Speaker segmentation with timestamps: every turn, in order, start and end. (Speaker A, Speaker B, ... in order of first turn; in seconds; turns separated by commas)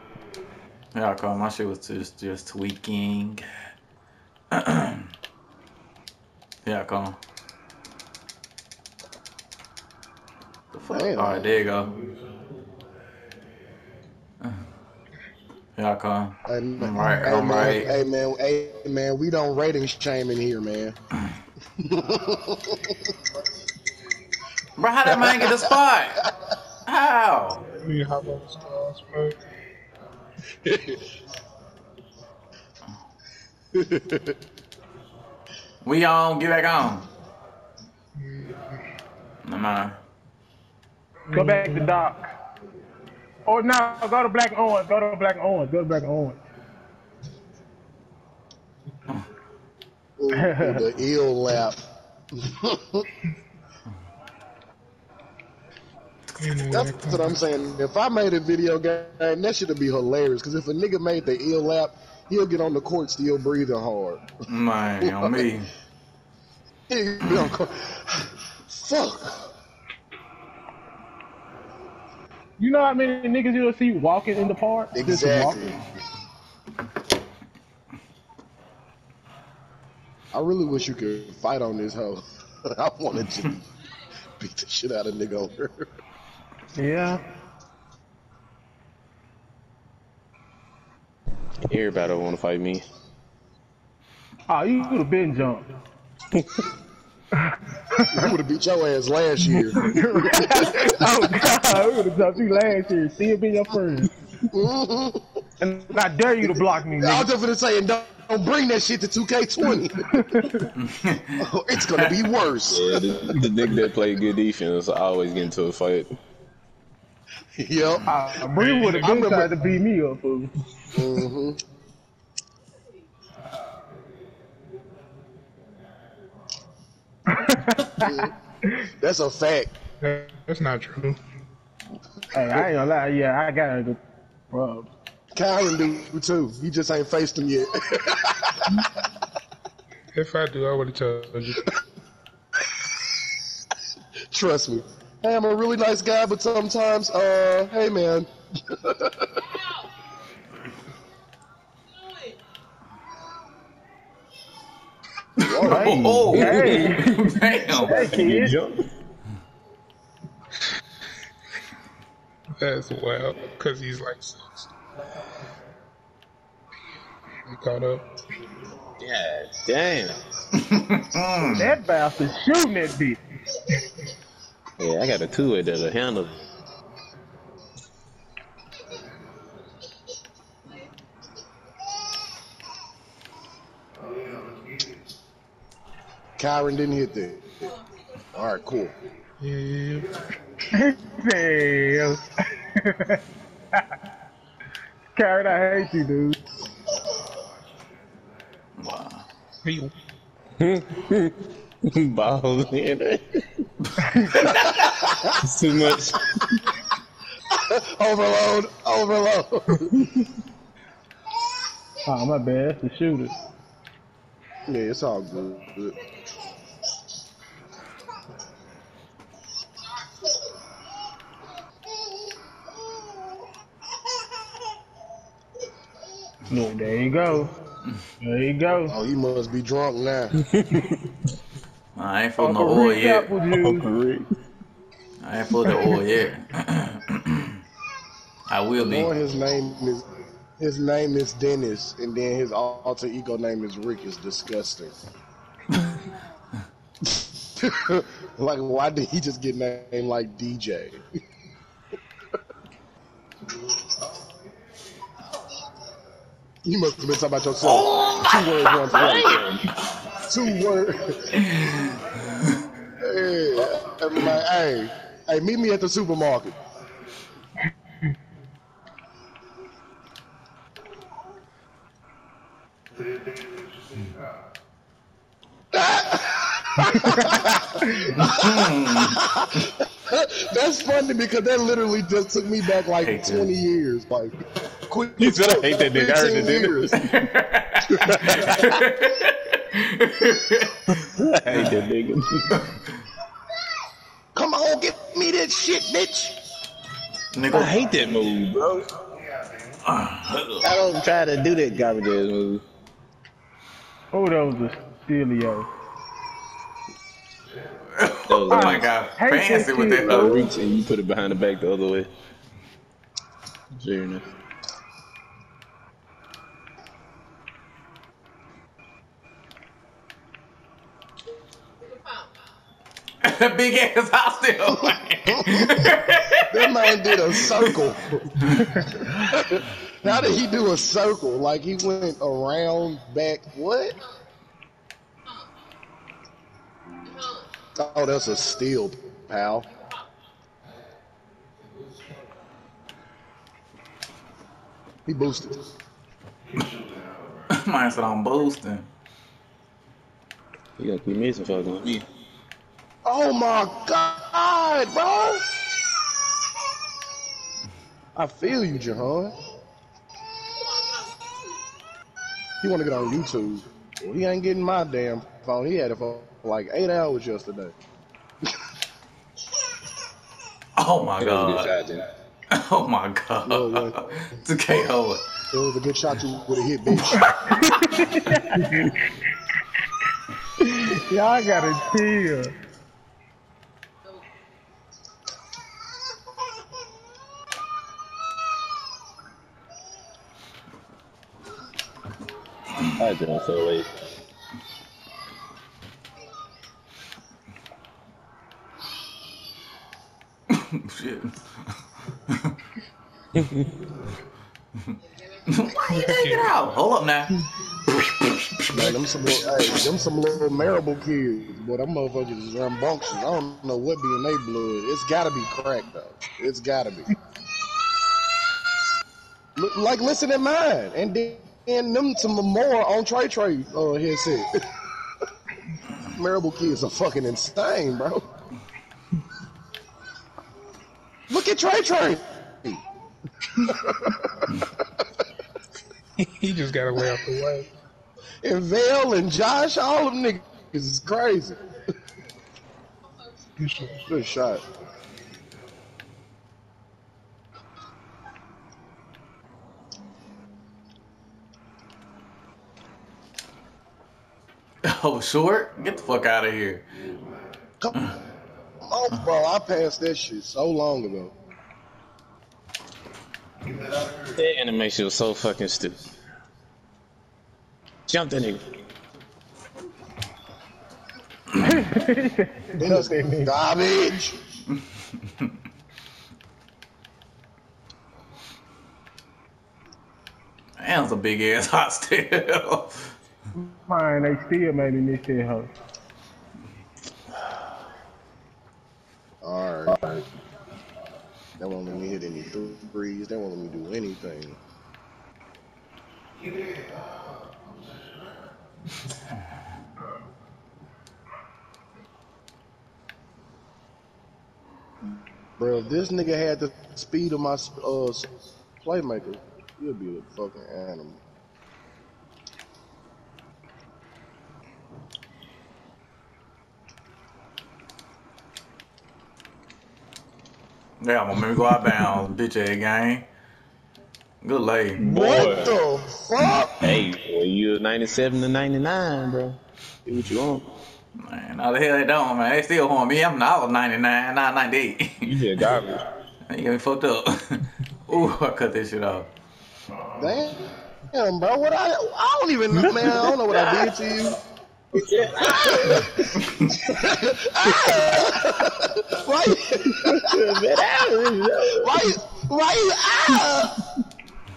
Speaker A: 0.9-3.5, Speaker A: 4.5-5.1, Speaker A: 6.7-7.2, Speaker A: 10.7-11.9, Speaker B: 10.9-11.6, Speaker A: 15.8-17.9, Speaker B: 16.5-20.9, Speaker B: 21.8-23.1, Speaker A: 24.8-26.3, Speaker B: 25.2-25.6, Speaker A: 26.9-27.6, Speaker C: 27.8-29.4, Speaker B: 30.6-31.0, Speaker B: 33.8-34.4, Speaker A: 35.8-37.1, Speaker C: 38.2-38.5, Speaker A: 39.4-40.0, Speaker C: 41.3-41.8, Speaker D: 41.3-42.3, Speaker D: 43.5-46.4, Speaker B: 50.2-51.8, Speaker D: 50.3-50.8, Speaker B: 52.4-53.1, Speaker A: 56.3-56.7, Speaker C: 56.4-57.4, Speaker B: 56.7-64.3, Speaker A: 64.5-65.7, Speaker B: 65.0-65.4, Speaker B: 66.9-69.5, Speaker D: 72.6-75.8, Speaker B: 74.9-75.8, Speaker B: 80.3-82.2, Speaker B: 82.8-83.6, Speaker B: 84.4-85.9, Speaker D: 86.8-87.2, Speaker E: 91.7-92.8, Speaker D: 94.5-95.7, Speaker B: 98.1-100.8, Speaker D: 99.7-104.1, Speaker B: 104.5-105.2, Speaker D: 105.6-107.3, Speaker B: 107.0-110.4, Speaker D: 110.2-110.7, Speaker A: 110.8-112.2, Speaker B: 111.4-113.1, Speaker E: 112.7-116.1, Speaker B: 117.6-118.2, Speaker D: 118.1-120.5, Speaker C: 118.6-119.1, Speaker B: 118.9-119.5, Speaker B: 120.9-121.6, Speaker D: 127.3-128.1, Speaker B: 128.0-128.3, Speaker B: 129.0-129.7, Speaker C: 130.0-131.2, Speaker D: 132.3-134.0, Speaker D: 134.5-134.9, Speaker B: 135.3-138.8, Speaker C: 140.1-141.7, Speaker B: 144.3-149.5, Speaker B: 155.4-156.0, Speaker A: 155.4-158.0, Speaker D: 155.6-158.6, Speaker E: 156.3-157.0, Speaker E: 157.9-158.8, Speaker C: 162.6-164.7, Speaker C: 167.5-168.1, Speaker E: 169.0-170.2, Speaker A: 170.6-171.7, Speaker D: 171.4-173.2, Speaker E: 174.8-176.4, Speaker B: 186.4-187.7, Speaker B: 188.3-188.9, Speaker C: 189.4-190.1, Speaker D: 190.8-193.2, Speaker D: 195.2-196.4, Speaker A: 198.8-199.3, Speaker C: 199.6-199.9, Speaker E: 200.6-203.6, Speaker D: 204.0-204.5, Speaker B: 204.7-205.3, Speaker E: 205.4-206.6, Speaker B: 207.5-209.9, Speaker D: 212.1-213.3, Speaker B: 214.7-216.0, Speaker D: 226.5-227.5, Speaker D: 228.2-228.9, Speaker B: 228.9-230.4, Speaker E: 230.5-231.1, Speaker A: 232.0-233.3, Speaker D: 232.4-233.9, Speaker E: 233.5-234.3, Speaker A: 235.2-237.6, Speaker A: 238.5-239.1, Speaker B: 238.8-240.0, Speaker B: 240.6-245.0, Speaker B: 247.6-251.0, Speaker B: 256.6-259.4, Speaker A: 257.6-259.1, Speaker E: 258.9-259.7, Speaker B: 260.3-261.4, Speaker A: 261.5-261.9, Speaker B: 263.0-266.6, Speaker B: 275.7-277.7, Speaker D: 276.8-277.3, Speaker A: 278.1-279.2, Speaker B: 279.1-284.4, Speaker A: 283.0-283.5, Speaker B: 284.9-287.0, Speaker E: 285.2-287.1, Speaker A: 287.0-291.0, Speaker E: 287.9-288.7, Speaker E: 291.1-292.6, Speaker A: 291.5-291.8, Speaker B: 294.4-296.4, Speaker A: 297.3-297.8, Speaker E: 297.5-298.9, Speaker A: 299.9-300.7, Speaker E: 300.6-302.6, Speaker D: 304.1-305.7, Speaker A: 308.0-310.3, Speaker E: 308.3-308.9, Speaker D: 308.5-310.5, Speaker E: 310.1-312.1, Speaker E: 313.8-314.3, Speaker A: 323.2-326.9, Speaker B: 325.3-325.9, Speaker B: 326.5-328.5, Speaker B: 329.1-334.0, Speaker B: 337.8-339.7, Speaker B: 345.1-345.6, Speaker A: 347.5-348.9, Speaker E: 350.8-352.1, Speaker B: 353.1-355.5, Speaker B: 358.1-359.3, Speaker B: 362.6-367.8, Speaker A: 370.8-371.8, Speaker E: 371.2-372.1, Speaker A: 372.5-375.2, Speaker B: 373.4-374.0, Speaker B: 375.5-377.3, Speaker D: 377.6-378.9, Speaker D: 380.6-382.5, Speaker E: 392.9-393.9, Speaker A: 400.5-401.7, Speaker A: 405.5-407.4, Speaker C: 405.9-406.5, Speaker A: 408.6-408.9, Speaker B: 408.7-417.1, Speaker B: 419.6-424.5, Speaker B: 426.1-428.2, Speaker B: 431.3-432.8, Speaker B: 433.6-434.5, Speaker C: 436.2-437.7, Speaker B: 438.4-441.6, Speaker C: 443.6-444.1, Speaker B: 444.0-444.6, Speaker A: 454.8-456.9, Speaker B: 458.9-461.3, Speaker E: 464.3-466.1, Speaker E: 468.1-468.6, Speaker D: 471.6-473.6, Speaker B: 472.8-474.4, Speaker A: 480.8-483.1, Speaker D: 483.6-485.7, Speaker B: 489.4-490.0, Speaker E: 489.9-490.2, Speaker B: 491.6-494.6, Speaker B: 505.6-511.2, Speaker A: 521.0-523.3, Speaker A: 524.4-525.1, Speaker E: 525.0-525.7, Speaker B: 525.0-527.0, Speaker E: 526.8-530.7, Speaker A: 531.2-535.4, Speaker E: 535.2-536.0, Speaker A: 536.5-539.3, Speaker B: 540.2-544.4, Speaker E: 542.9-543.8, Speaker E: 544.9-546.1, Speaker B: 545.5-546.1, Speaker B: 546.9-550.3, Speaker E: 549.9-552.0, Speaker B: 551.7-553.8